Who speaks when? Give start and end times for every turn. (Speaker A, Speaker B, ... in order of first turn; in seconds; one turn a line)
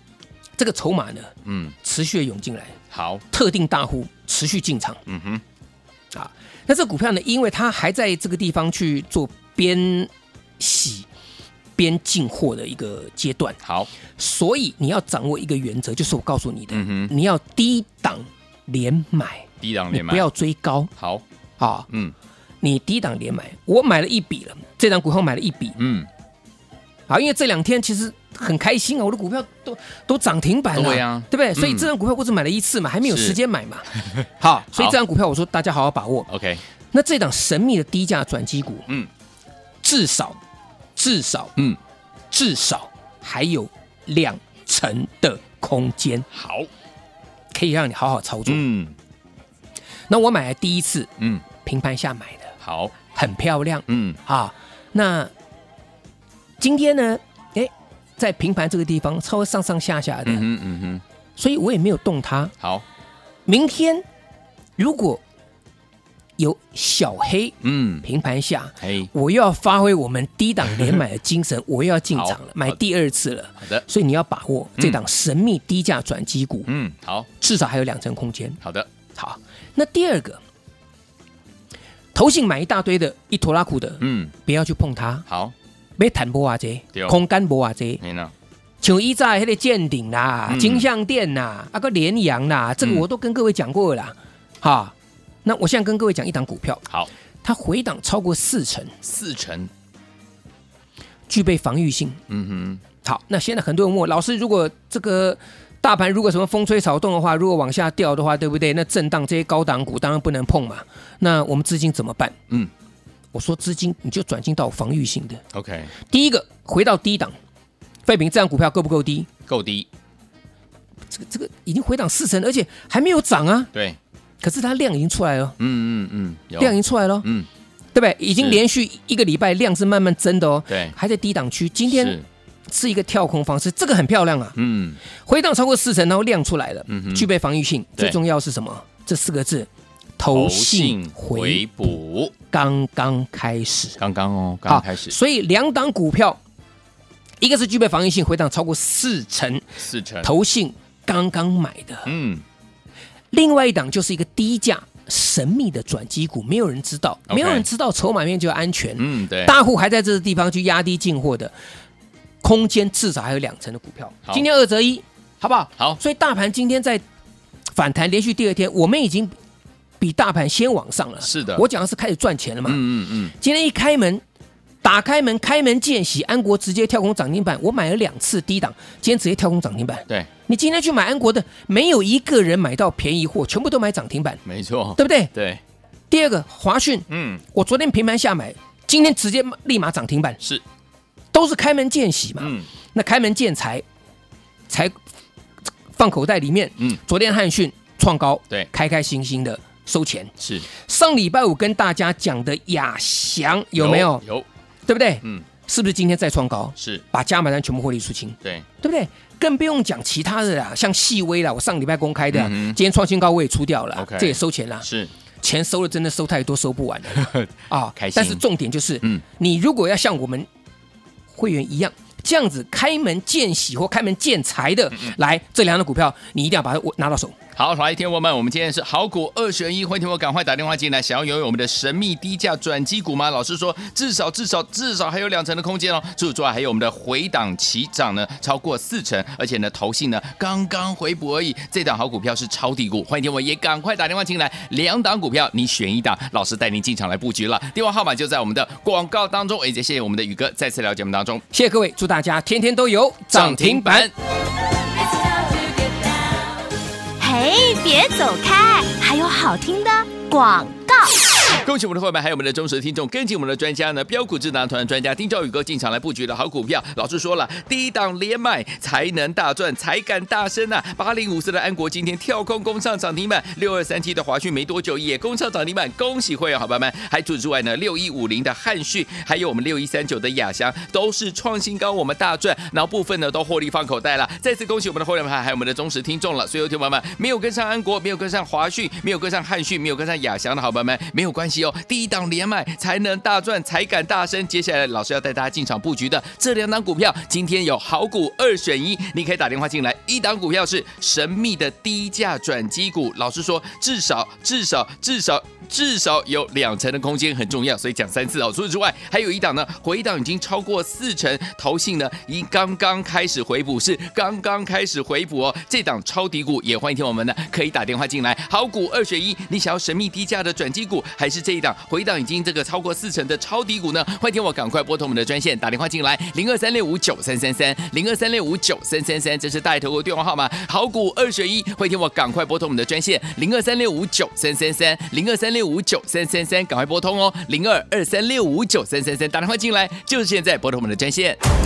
Speaker A: 0.6-2.8
Speaker B: 1.4-1.8
Speaker B: 2.9-3.2
Speaker A: 3.3-5.0
Speaker B: 5.0-5.4
Speaker A: 6.1-11.1
Speaker A: 11.8-13.6
Speaker B: 13.6-13.9
Speaker A: 14.2-20.9
Speaker B: 16.7-17.1
Speaker B: 19.6-20.3
Speaker B: 21.0-21.2
Speaker A: 21.6-21.9
Speaker B: 21.9-22.1
Speaker A: 22.6-25.8
Speaker B: 25.8-26.1
Speaker A: 27.1-36.3
Speaker B: 30.7-31.9
Speaker B: 33.0-33.4
Speaker B: 36.3-36.6
Speaker A: 36.9-38.9
Speaker A: 39.8-40.4
Speaker A: 41.0-41.5
Speaker A: 42.3-46.3
Speaker B: 46.3-46.7
Speaker A: 47.5-48.6
Speaker B: 48.5-49.0
Speaker A: 50.1-55.3
Speaker B: 51.2-51.4
Speaker B: 52.6-52.9
Speaker B: 53.9-54.2
Speaker A: 56.6-60.5
Speaker B: 60.2-61.0
Speaker A: 61.4-62.5
Speaker B: 62.6-62.9
Speaker A: 63.5-64.0
Speaker A: 64.8-65.2
Speaker A: 66.4-76.7
Speaker B: 67.6-68.0
Speaker B: 68.8-69.1
Speaker B: 72.1-72.8
Speaker B: 73.6-73.8
Speaker B: 76.7-77.3
Speaker A: 77.4-78.6
Speaker B: 78.6-78.9
Speaker A: 79.2-80.4
Speaker A: 82.1-85.2
Speaker B: 84.0-84.3
Speaker B: 85.3-85.5
Speaker A: 86.0-88.0
Speaker B: 88.0-88.3
Speaker A: 88.8-96.8
Speaker B: 90.5-90.9
Speaker B: 92.8-93.0
Speaker A: 97.4-98.9
Speaker B: 99.0-99.7
Speaker A: 101.3-102.2
Speaker B: 102.3-102.8
Speaker A: 103.0-112.4
Speaker A: 113.3-115.4
Speaker B: 115.5-115.9
Speaker A: 116.0-117.3
Speaker A: 118.0-119.3
Speaker B: 119.5-119.9
Speaker A: 121.1-123.7
Speaker B: 123.7-124.0
Speaker A: 124.4-125.6
Speaker B: 125.6-127.5
Speaker A: 126.6-127.3
Speaker A: 127.9-132.2
Speaker B: 128.3-128.6
Speaker B: 130.7-130.9
Speaker B: 131.9-132.2
Speaker A: 132.7-134.6
Speaker B: 134.6-135.0
Speaker A: 135.1-139.7
Speaker B: 136.9-137.3
Speaker A: 140.2-141.7
Speaker B: 140.3-142.3
Speaker A: 142.5-144.0
Speaker B: 144.0-145.1
Speaker A: 144.7-146.4
Speaker A: 147.4-149.7
Speaker B: 149.8-150.3
Speaker A: 150.2-152.1
Speaker B: 152.1-152.4
Speaker A: 153.3-161.5
Speaker B: 157.3-157.7
Speaker B: 159.0-159.6
Speaker A: 162.4-167.0
Speaker A: 167.7-169.3
Speaker A: 170.0-172.8
Speaker B: 171.2-171.7
Speaker B: 172.6-173.3
Speaker A: 173.4-174.2
Speaker A: 174.8-184.4
Speaker B: 184.4-185.6
Speaker A: 185.0-185.3
Speaker A: 186.1-190.4
Speaker B: 187.1-187.4
Speaker A: 191.3-193.8
Speaker B: 192.4-192.7
Speaker A: 194.7-194.9
Speaker A: 195.9-204.2
Speaker B: 200.4-200.7
Speaker B: 203.8-204.5
Speaker A: 204.9-214.8
Speaker B: 206.8-207.0
Speaker B: 212.3-212.8
Speaker B: 213.9-215.1
Speaker A: 215.4-220.5
Speaker B: 217.1-218.4
Speaker A: 221.3-227.3
Speaker B: 227.5-251.4
Speaker A: 251.5-254.1
Speaker B: 253.3-254.1
Speaker C: 254.9-256.4
Speaker C: 257.2-261.4
Speaker B: 261.6-341.4